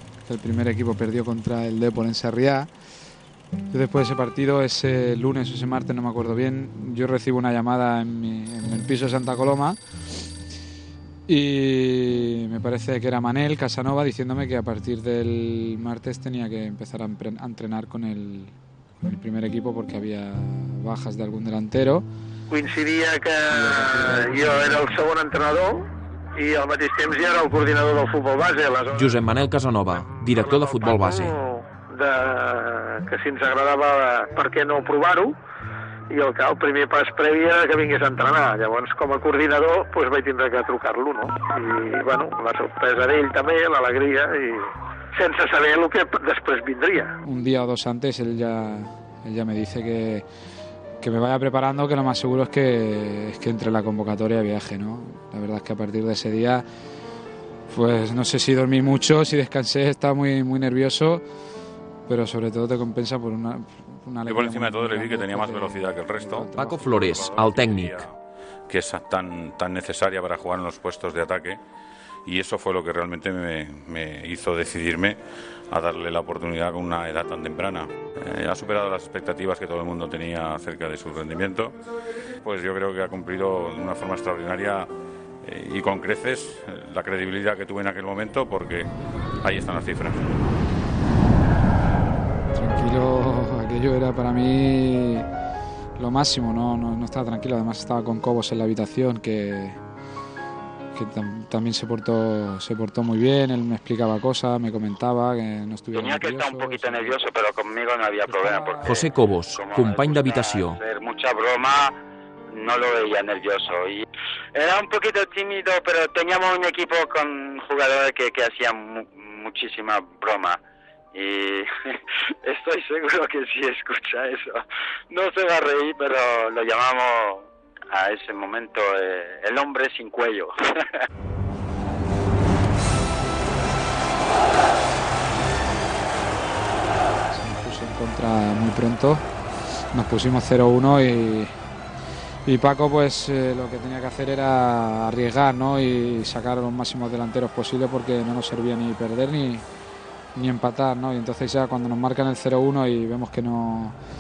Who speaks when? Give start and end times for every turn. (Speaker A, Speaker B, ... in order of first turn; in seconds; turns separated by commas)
Speaker A: 0.2-2.7, Speaker A: 3.7-9.8, Speaker A: 11.3-22.0, Speaker B: 22.5-25.8, Speaker A: 23.5-26.3, Speaker B: 26.3-29.1, Speaker A: 27.2-27.5, Speaker C: 28.9-31.3, Speaker B: 31.0-35.4, Speaker B: 36.1-47.1, Speaker A: 47.2-50.2, Speaker A: 51.0-56.6, Speaker A: 57.7-61.2, Speaker A: 62.1-67.2, Speaker D: 64.3-68.1, Speaker C: 66.5-68.0, Speaker D: 68.7-71.6, Speaker D: 72.2-75.2, Speaker D: 75.7-81.8, Speaker D: 82.4-84.9, Speaker D: 85.4-88.9, Speaker D: 89.4-90.4, Speaker A: 92.5-95.2, Speaker A: 96.0-99.8, Speaker A: 100.9-107.2, Speaker E: 105.9-112.0, Speaker A: 108.2-109.1, Speaker C: 108.8-110.8, Speaker E: 112.5-120.6, Speaker E: 121.1-121.7, Speaker E: 122.4-130.8, Speaker A: 137.3-139.2, Speaker A: 139.9-141.5, Speaker A: 142.4-149.6, Speaker A: 150.3-153.9